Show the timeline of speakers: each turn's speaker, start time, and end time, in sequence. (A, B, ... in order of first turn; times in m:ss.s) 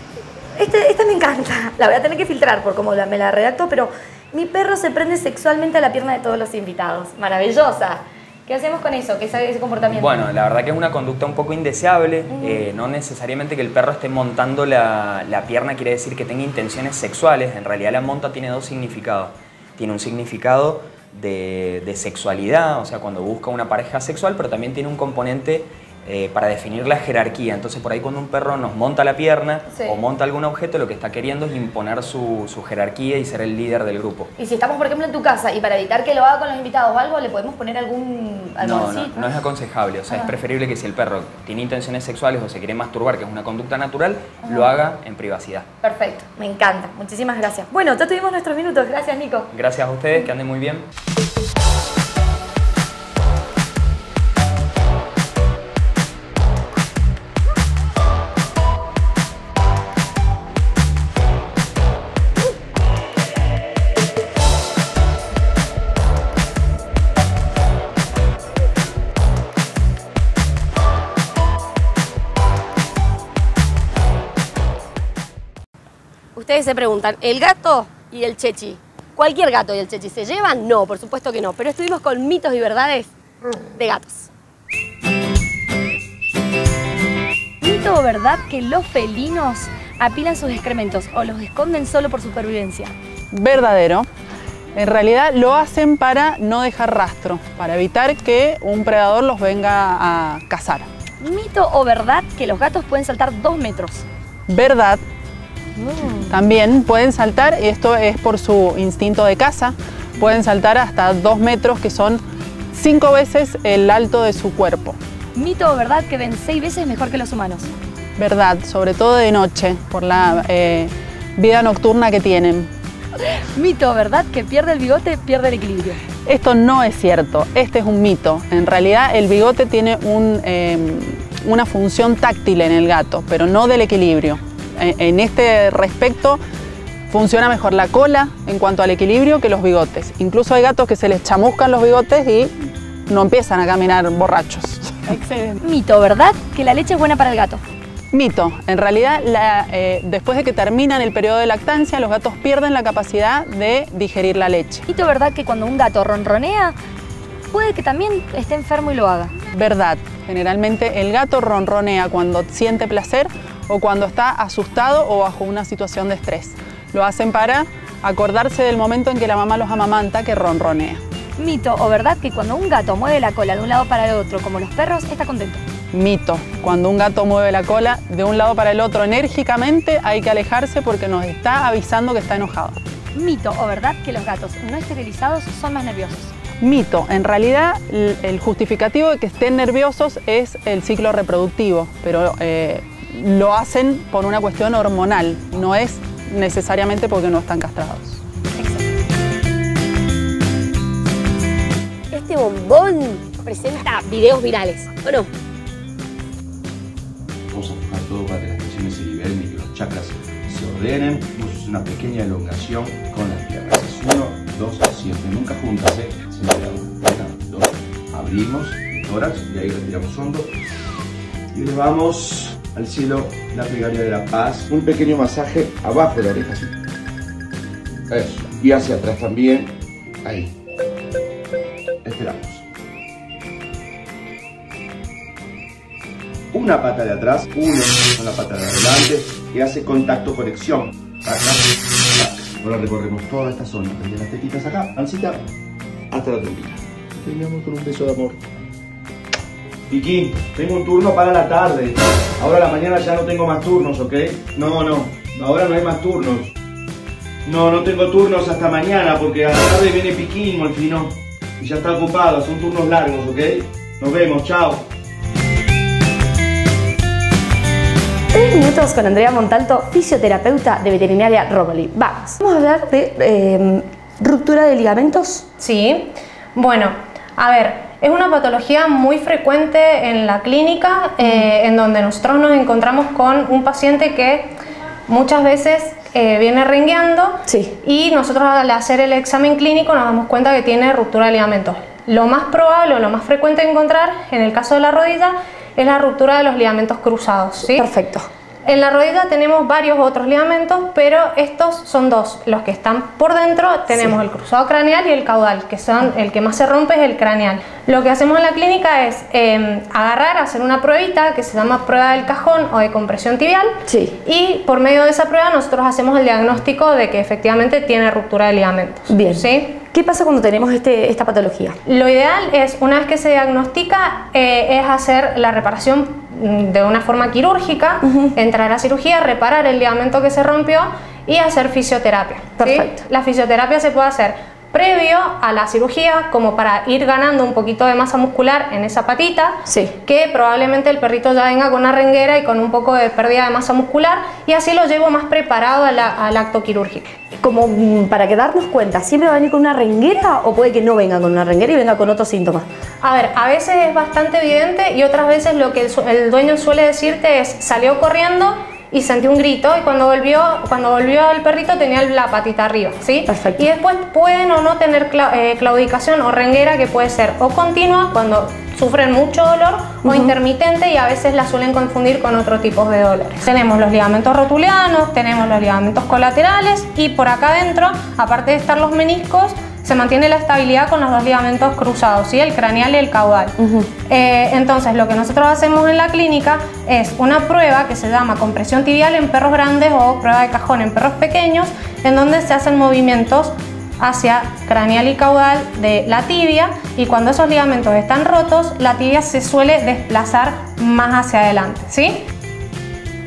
0:00.6-0:10.1 A
0:09.9-0:34.3 B
0:12.3-0:12.7 A
0:29.7-0:30.0 A
0:34.4-0:39.4 A
0:38.6-0:45.7 B
0:44.5-0:44.7 A
0:45.8-0:49.5 A
0:49.5-0:50.9 B
1:16.4-1:23.1 A
1:23.8-1:24.3 A
1:27.6-1:32.9 A
1:33.3-1:34.1 C
1:34.8-1:40.9 C
1:41.2-1:44.0 A
1:44.5-1:45.0 C
1:45.8-1:46.2 A
1:46.3-1:52.2 C
1:52.7-1:55.0 C
1:55.4-1:57.7 A
1:58.2-2:02.7 C
2:03.2-2:06.0 A
2:06.3-2:16.4 C
2:17.1-2:22.5 C
2:23.1-2:25.5 C
2:25.6-2:27.6 A
2:28.1-2:34.9 C
2:34.9-2:36.7 A
2:37.5-2:39.3 A
2:39.5-2:51.0 C
2:51.4-2:55.6 A
2:55.9-3:02.8 C
3:03.2-3:06.3 A
3:06.6-3:18.2 C
3:22.1-3:25.3 D
3:27.5-3:40.5 E
3:41.5-3:46.7 E
3:48.1-3:49.7 E
3:50.2-3:50.5 E
3:52.0-3:52.6 E
3:56.5-4:05.4 E
4:06.1-4:08.4 E
4:09.9-4:16.5 E
4:17.4-4:24.9 E
4:28.3-4:35.5 A
4:35.6-4:44.6 F
4:45.1-4:57.8 F
4:47.5-4:47.7 A
4:57.6-4:58.3 A
4:58.7-5:19.8 F
5:13.9-5:14.2 A
5:19.1-5:21.8 A
5:21.9-5:47.2 F
5:28.1-5:28.3 A
5:32.6-5:33.0 A
5:39.7-5:39.9 A
5:47.4-5:52.7 A
5:53.0-6:42.3 F
6:03.3-6:03.7 A
6:10.0-6:10.3 A